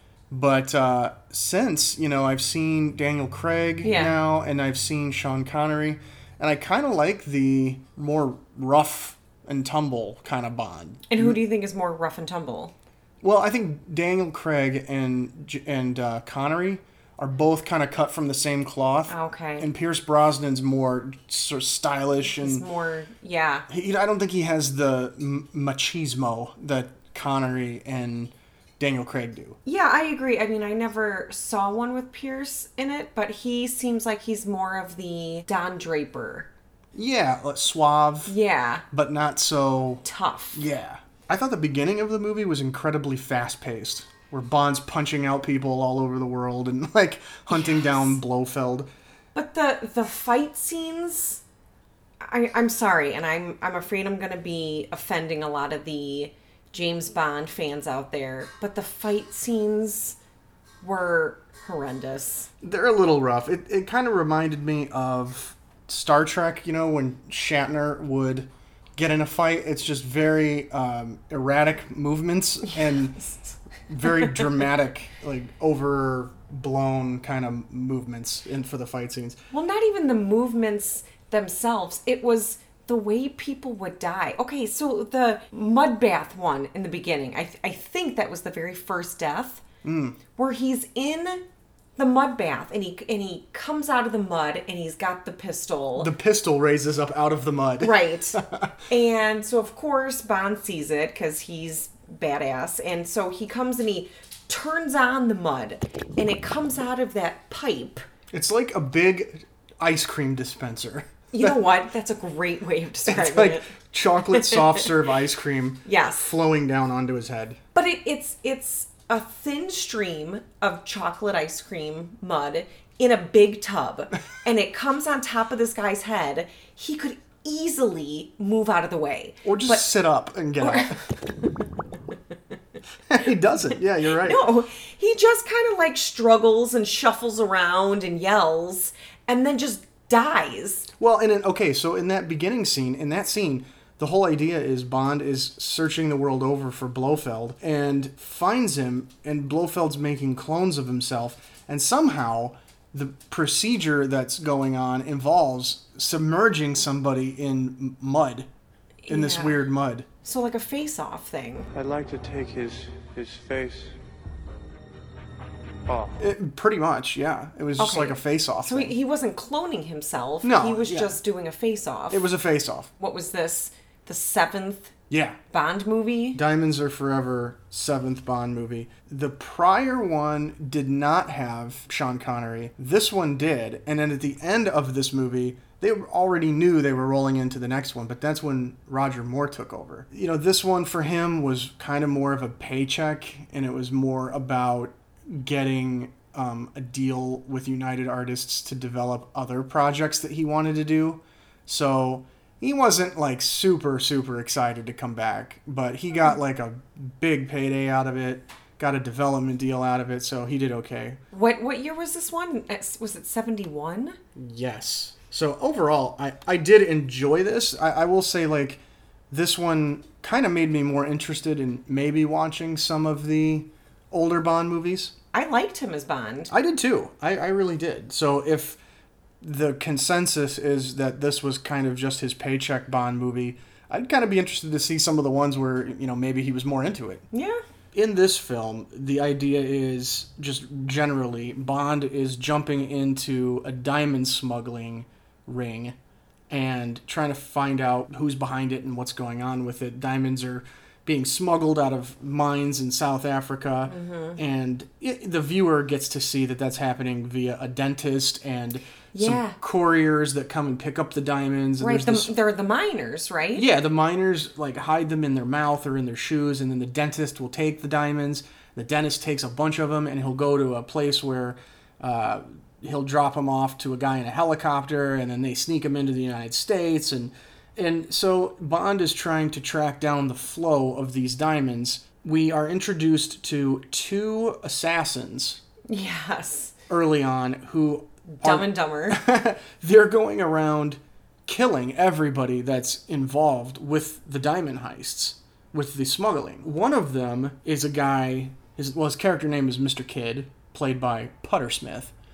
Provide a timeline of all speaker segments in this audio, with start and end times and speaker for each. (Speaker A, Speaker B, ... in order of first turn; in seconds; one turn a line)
Speaker A: 0.3-11.4
Speaker B: 3.8-4.1
Speaker B: 11.1-12.7
Speaker A: 13.2-22.6
Speaker B: 19.1-19.7
Speaker B: 22.2-23.7
Speaker A: 23.7-29.6
Speaker B: 29.6-36.5
Speaker A: 36.9-38.3
Speaker B: 38.3-38.8
Speaker A: 38.9-48.9
Speaker B: 40.0-40.6
Speaker B: 47.5-48.2
Speaker B: 49.3-51.4
Speaker B: 52.2-60.2
Speaker B: 60.8-62.5
Speaker A: 62.6-73.2
Speaker A: 73.9-79.4
Speaker B: 79.5-89.6
Speaker A: 89.8-90.2
Speaker B: 90.3-91.4
Speaker B: 92.0-96.1
Speaker A: 96.0-98.8
Speaker B: 97.8-98.4
Speaker B: 98.9-108.0
Speaker A: 108.3-111.6
Speaker B: 111.3-113.7
Speaker A: 113.1-117.6
Speaker B: 114.3-114.8
Speaker B: 115.8-116.3
Speaker B: 117.7-129.9
Speaker A: 129.4-131.2
Speaker B: 130.6-131.0
Speaker A: 133.1-134.4
Speaker B: 134.1-140.9
Speaker A: 141.0-158.5
Speaker B: 159.0-159.6
Speaker A: 159.1-160.1
Speaker B: 160.2-161.7
Speaker C: 161.7-164.0
Speaker C: 165.9-166.2
Speaker A: 166.2-168.9
Speaker B: 167.8-172.3
Speaker A: 170.4-171.2
Speaker A: 172.1-172.9
Speaker B: 173.0-174.9
Speaker A: 175.1-175.4
Speaker B: 175.5-176.4
Speaker A: 176.3-211.2
Speaker B: 211.3-214.2
Speaker A: 214.3-225.1
Speaker B: 225.3-226.5
Speaker A: 226.5-228.8
Speaker A: 229.4-237.2
Speaker B: 237.3-237.6
Speaker A: 237.9-245.9
Speaker A: 246.5-262.3
Speaker B: 253.8-254.4
Speaker B: 259.1-259.6
Speaker B: 261.8-263.6
Speaker A: 263.5-285.6
Speaker B: 285.9-286.7
Speaker A: 286.9-302.1
Speaker B: 288.3-289.2